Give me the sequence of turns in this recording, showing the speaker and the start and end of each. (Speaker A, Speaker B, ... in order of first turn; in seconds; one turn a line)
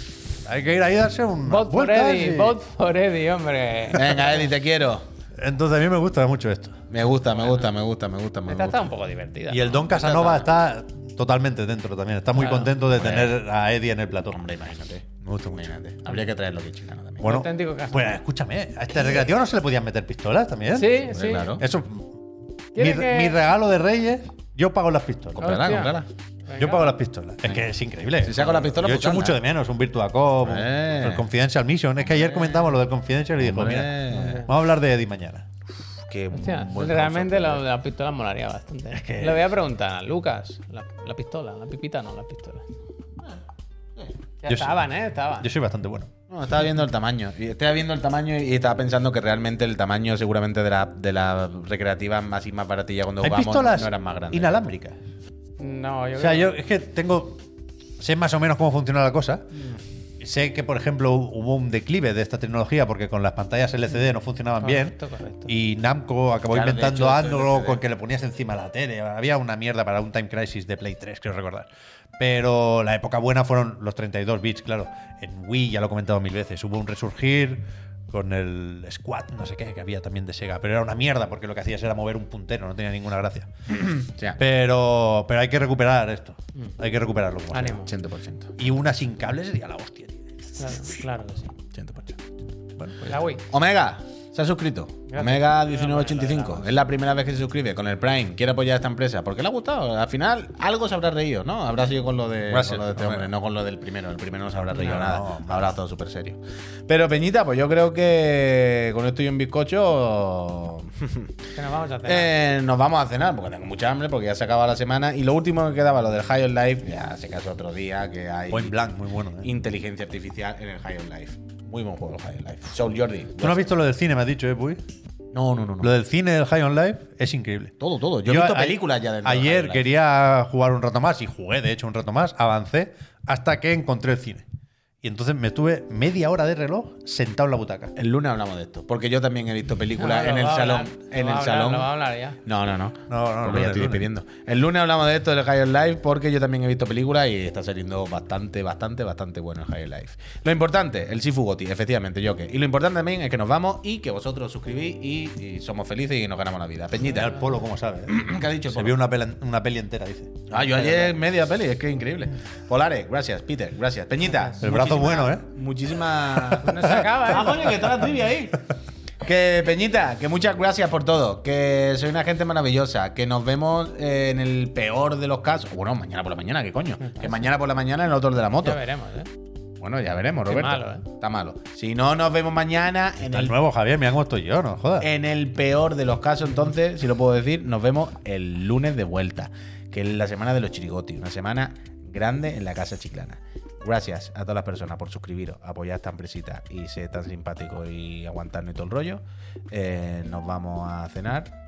Speaker A: 0.4-2.6
Speaker B: 1.5-4.5
Speaker C: 3.9-5.0
Speaker A: 5.4-6.8
Speaker C: 6.9-8.8
Speaker B: 8.5-9.8
Speaker A: 9.5-14.4
Speaker C: 9.9-10.5
Speaker B: 12.3-12.7
Speaker C: 12.9-13.4
Speaker C: 14.3-17.3
Speaker A: 15.2-15.7
Speaker A: 17.2-22.1
Speaker B: 17.2-18.2
Speaker B: 20.8-21.5
Speaker C: 21.0-21.6
Speaker B: 22.8-23.4
Speaker A: 22.8-25.7
Speaker C: 25.4-26.1
Speaker B: 25.4-26.9
Speaker A: 26.6-35.5
Speaker C: 28.2-29.4
Speaker C: 30.4-31.2
Speaker C: 32.2-32.7
Speaker C: 33.4-34.5
Speaker B: 34.1-34.5
Speaker C: 36.1-37.6
Speaker B: 36.3-42.7
Speaker A: 38.9-39.5
Speaker B: 44.4-45.5
Speaker A: 44.5-44.9
Speaker A: 45.4-46.1
Speaker C: 46.3-54.6
Speaker A: 53.2-55.0
Speaker B: 55.6-56.5
Speaker A: 56.2-57.4
Speaker A: 58.0-59.5
Speaker A: 60.2-83.5
Speaker B: 64.6-65.5
Speaker C: 66.5-67.8
Speaker C: 83.7-84.4
Speaker A: 84.4-87.9
Speaker B: 87.5-87.9
Speaker C: 87.9-88.5
Speaker A: 88.6-90.9
Speaker B: 90.6-91.5
Speaker C: 91.7-92.2
Speaker A: 92.8-93.1
Speaker B: 93.0-93.4
Speaker C: 93.5-111.3
Speaker B: 95.1-96.7
Speaker A: 102.5-103.3
Speaker A: 104.7-105.7
Speaker B: 111.5-112.3
Speaker C: 112.0-118.8
Speaker A: 118.5-119.5
Speaker C: 119.4-123.6
Speaker A: 123.4-124.8
Speaker C: 125.3-125.9
Speaker A: 125.8-127.7
Speaker C: 127.8-129.8
Speaker A: 128.3-134.5
Speaker A: 135.0-137.9
Speaker C: 138.0-141.9
Speaker B: 140.0-142.4
Speaker C: 142.4-157.4
Speaker A: 143.1-144.0
Speaker A: 157.1-161.1
Speaker C: 158.1-159.0
Speaker C: 160.5-168.7
Speaker B: 164.3-164.5
Speaker A: 164.6-165.5
Speaker A: 166.3-167.0
Speaker B: 166.6-167.8
Speaker C: 169.2-178.8
Speaker B: 178.6-179.3
Speaker C: 179.8-183.6
Speaker B: 180.5-181.1
Speaker A: 183.2-185.1
Speaker C: 185.0-201.5